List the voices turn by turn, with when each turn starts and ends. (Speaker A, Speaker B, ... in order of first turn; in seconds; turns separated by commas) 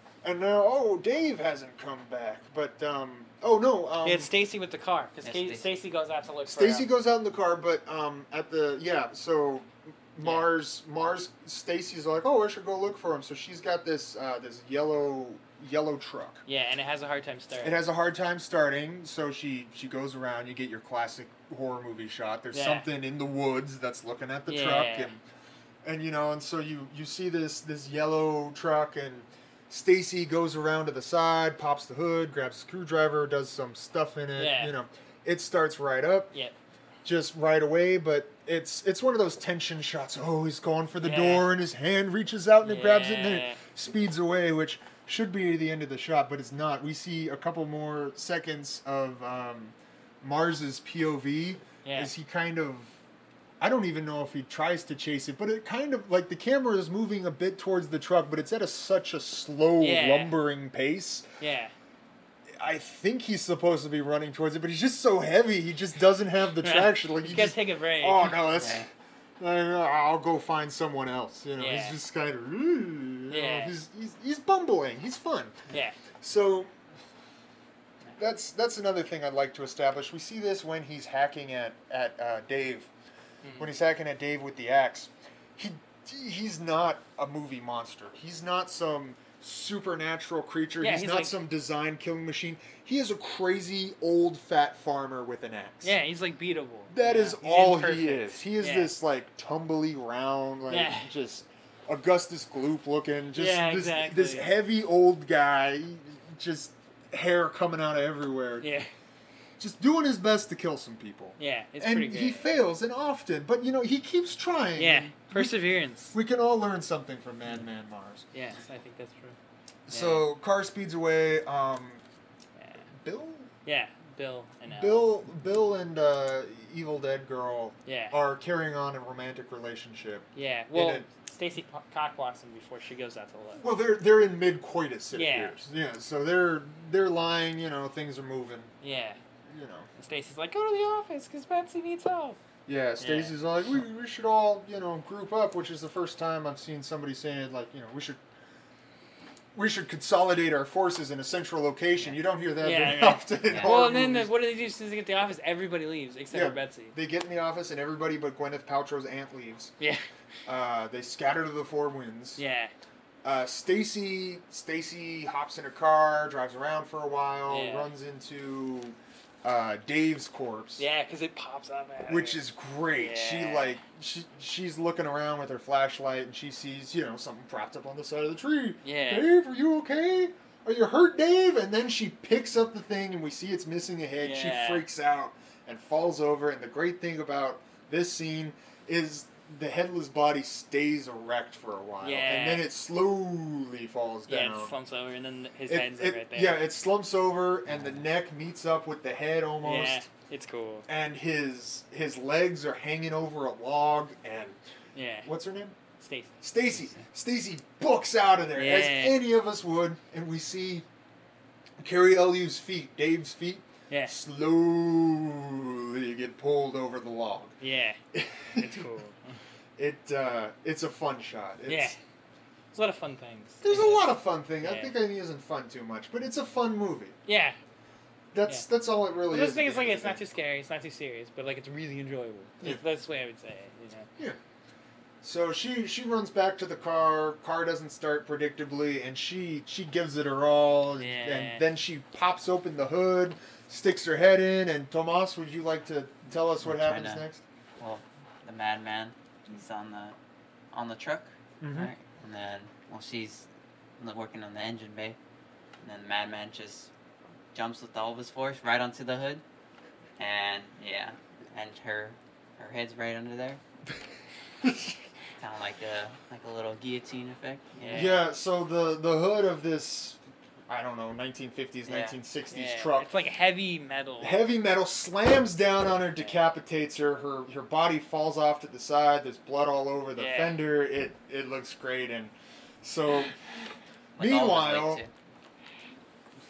Speaker A: 0.2-4.3, Speaker B: 4.0-6.9, Speaker C: 5.2-5.7, Speaker A: 6.5-16.4, Speaker B: 10.2-10.5, Speaker B: 16.5-17.8, Speaker A: 17.6-25.2, Speaker B: 22.5-22.9, Speaker B: 24.5-25.2, Speaker A: 25.8-36.3, Speaker B: 34.4-34.7, Speaker A: 37.0-52.9, Speaker B: 41.0-41.5, Speaker B: 42.6-43.6, Speaker B: 51.8-52.1, Speaker A: 53.6-61.3, Speaker B: 59.8-60.4, Speaker B: 61.4-61.7, Speaker A: 62.6-68.8, Speaker B: 66.6-68.6, Speaker C: 68.6-68.8, Speaker A: 69.4-75.6, Speaker B: 71.6-72.0, Speaker B: 73.3-73.8, Speaker B: 75.7-76.0, Speaker A: 76.2-76.7, Speaker A: 78.2-82.9, Speaker B: 83.4-83.7, Speaker A: 83.6-96.0, Speaker B: 90.8-91.4, Speaker B: 95.8-98.9, Speaker A: 96.9-108.7, Speaker B: 100.7-101.1, Speaker B: 103.3-104.5, Speaker B: 108.6-108.9, Speaker A: 109.6-115.6, Speaker B: 111.4-112.5, Speaker B: 114.8-116.2, Speaker A: 116.1-118.2, Speaker B: 118.3-119.4, Speaker A: 119.9-122.0, Speaker B: 119.9-120.3, Speaker B: 122.6-122.8, Speaker A: 123.0-123.5, Speaker B: 123.7-125.1, Speaker A: 124.7-131.1, Speaker B: 127.9-128.2, Speaker B: 130.3-133.7, Speaker A: 133.6-138.7, Speaker B: 135.1-135.6, Speaker B: 138.8-139.2, Speaker A: 139.5-139.9, Speaker B: 140.0-142.4, Speaker A: 142.7-148.2, Speaker B: 143.0-143.3, Speaker A: 149.6-154.3, Speaker B: 152.6-156.9, Speaker C: 153.4-153.7, Speaker A: 156.3-159.7, Speaker A: 160.5-162.4, Speaker B: 162.4-162.7, Speaker A: 163.2-170.8, Speaker B: 167.5-167.9, Speaker B: 170.8-172.4, Speaker A: 172.1-194.8, Speaker B: 172.9-173.8, Speaker B: 178.8-179.3, Speaker B: 184.2-184.9, Speaker B: 192.0-192.7, Speaker B: 194.3-196.6, Speaker A: 195.7-200.1, Speaker B: 199.6-200.9, Speaker A: 200.9-204.6, Speaker B: 204.9-205.3, Speaker A: 205.2-205.8, Speaker B: 206.0-206.4, Speaker A: 206.4-210.9, Speaker C: 206.7-207.1, Speaker B: 208.6-209.2, Speaker A: 211.8-217.6, Speaker B: 213.9-214.2, Speaker B: 217.6-218.0, Speaker A: 218.1-218.9, Speaker B: 218.6-219.2, Speaker A: 219.8-222.0, Speaker B: 221.7-222.0, Speaker B: 222.7-225.0, Speaker A: 223.6-227.2, Speaker B: 227.3-227.6, Speaker A: 228.3-230.2, Speaker B: 229.3-234.1, Speaker A: 235.2-247.4, Speaker B: 241.0-241.6, Speaker C: 246.6-247.2, Speaker C: 247.8-250.2, Speaker C: 250.7-253.5, Speaker A: 251.6-251.9, Speaker C: 254.0-255.2, Speaker C: 255.8-256.9, Speaker C: 257.5-259.4, Speaker C: 260.2-263.6, Speaker A: 264.6-264.9, Speaker C: 265.4-268.2, Speaker B: 267.8-268.2, Speaker A: 267.9-273.1, Speaker C: 271.9-272.2, Speaker B: 272.5-274.4, Speaker A: 274.2-283.4, Speaker B: 280.2-280.6, Speaker C: 284.2-285.1, Speaker A: 284.2-285.0